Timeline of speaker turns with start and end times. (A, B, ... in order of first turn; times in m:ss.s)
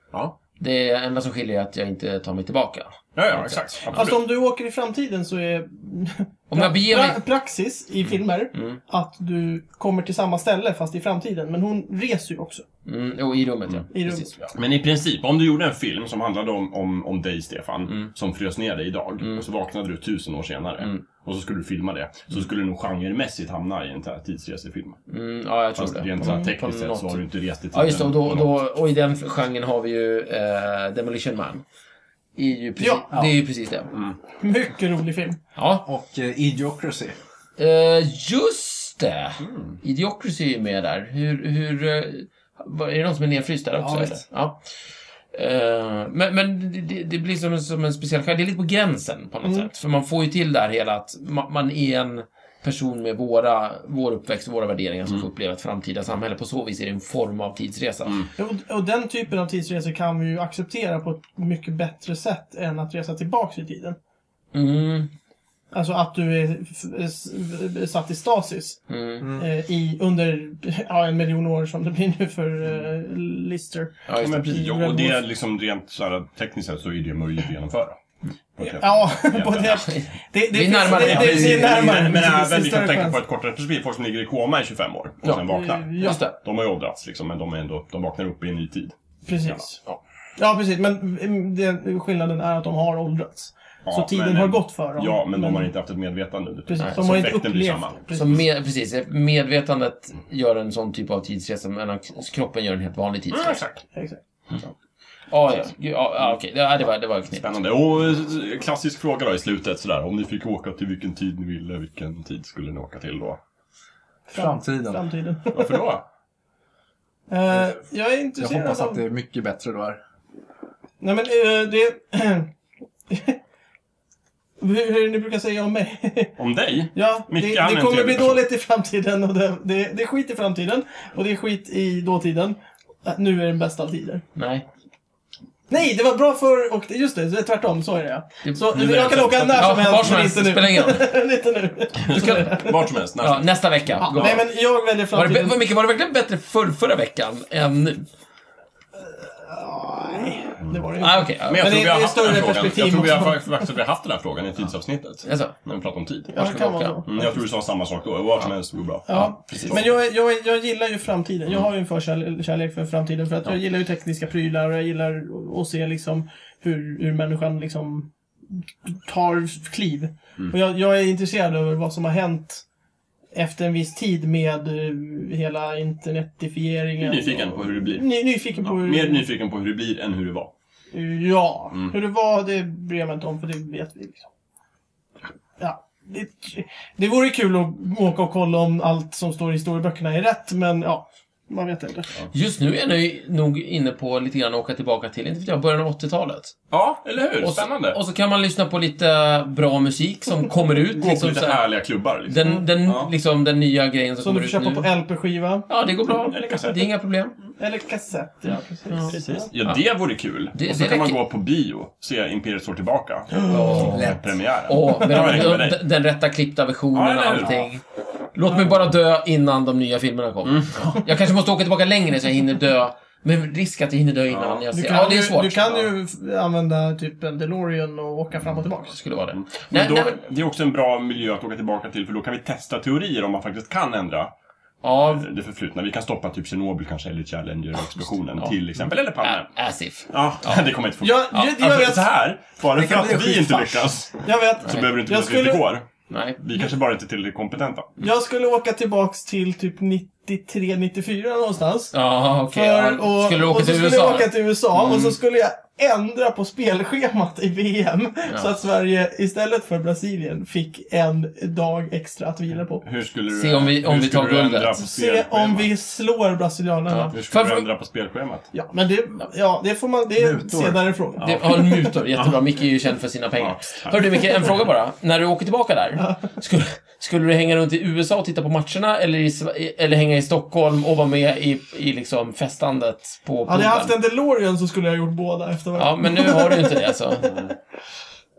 0:00.6-0:04.0 A
0:03.1-0:04.2 B
0:03.9-0:12.6 C
0:06.5-0:07.2 A
0:08.5-0:08.8 A
0:12.8-0:14.5 A
0:13.9-0:14.3 C
0:14.5-0:25.0 B
0:25.1-0:31.6 A
0:25.8-0:28.6 B
0:26.2-0:26.5 C
0:32.4-0:33.9 A
0:32.8-0:33.0 C
0:34.4-0:35.4 C
0:35.6-0:35.8 A
0:35.8-0:37.2 D
0:37.6-0:44.6 A
0:39.4-0:39.8 B
0:43.8-0:44.2 D
0:45.3-0:58.3 A
0:49.4-0:49.7 C
0:58.4-1:04.0 C
1:04.5-1:05.1 A
1:05.7-1:15.2 C
1:08.9-1:09.3 A
1:09.2-1:09.5 D
1:14.1-1:14.7 A
1:14.2-1:18.0 B
1:18.6-1:19.9 B
1:18.6-1:23.2 C
1:19.7-1:21.8 A
1:20.8-1:29.6 B
1:25.3-1:26.3 C
1:26.0-1:26.4 A
1:29.2-1:29.8 C
1:30.4-1:35.7 C
1:33.8-1:38.4 B
1:36.7-1:38.4 C
1:36.8-1:37.3 A
1:38.1-1:43.6 A
1:43.3-1:43.8 B
1:43.9-1:44.2 C
1:45.3-1:47.6 A
1:47.3-1:53.4 B
1:54.3-1:55.9 C
1:54.3-1:55.0 D
1:55.5-1:56.0 B
1:57.3-1:59.0 C
1:58.4-2:00.0 D
2:01.0-2:02.5 C
2:03.1-2:03.4 C
2:04.6-2:06.4 C
2:06.4-2:08.4 B
2:06.9-2:14.2 C
2:14.4-2:14.6 A
2:15.7-2:22.9 C
2:18.7-2:20.2 B
2:19.5-2:21.1 A
2:22.0-2:24.4 B
2:22.1-2:22.6 A
2:23.2-2:24.5 A
2:24.0-2:25.6 C
2:25.1-2:28.0 A
2:29.0-2:33.6 C
2:31.0-2:31.8 A
2:31.4-2:36.3 B
2:35.2-2:35.5 A
2:36.3-2:37.4 C
2:36.3-2:37.0 A
2:37.0-2:39.9 B
2:39.1-2:39.8 A
2:39.1-2:52.6 C
2:53.3-2:59.2 C
2:57.0-3:00.5 B
3:00.9-3:04.2 C
3:05.6-3:12.1 C
3:12.3-3:16.6 A
3:16.7-3:18.0 B
3:17.4-3:21.6 A
3:20.9-3:23.1 B
3:22.2-3:24.9 A
3:24.2-3:25.7 C
3:25.7-3:27.4 A
3:26.2-3:26.9 B
3:27.6-3:29.5 C
3:28.9-3:29.2 A
3:29.1-3:35.8 B
3:30.5-3:31.2 A
3:33.3-3:34.1 C
3:33.5-3:37.7 A
3:33.8-3:34.2 D
3:36.9-3:37.7 B
3:37.4-3:37.8 D
3:38.3-3:45.9 A
3:40.6-3:40.9 B
3:44.3-3:44.6 B
3:44.7-3:49.0 C
3:48.9-3:50.2 A
3:49.3-3:54.3 B
3:54.8-3:55.2 A
3:54.9-3:59.5 B
3:59.2-4:00.6 A
4:00.1-4:05.9 B
4:01.0-4:02.1 C
4:02.7-4:03.9 D
4:04.2-4:05.7 C
4:06.1-4:06.4 A
4:06.4-4:07.9 B
4:08.0-4:12.0 C
4:11.9-4:15.2 A
4:12.5-4:22.8 C
4:22.8-4:25.7 B
4:23.3-4:24.8 A
4:24.8-4:27.2 C
4:26.9-4:27.7 A
4:27.1-4:28.5 B
4:28.5-4:31.7 C
4:30.2-4:30.9 D
4:31.2-4:32.4 B
4:31.2-4:43.9 A
4:33.4-4:34.5 B
4:43.5-4:47.5 C
4:45.8-4:47.4 A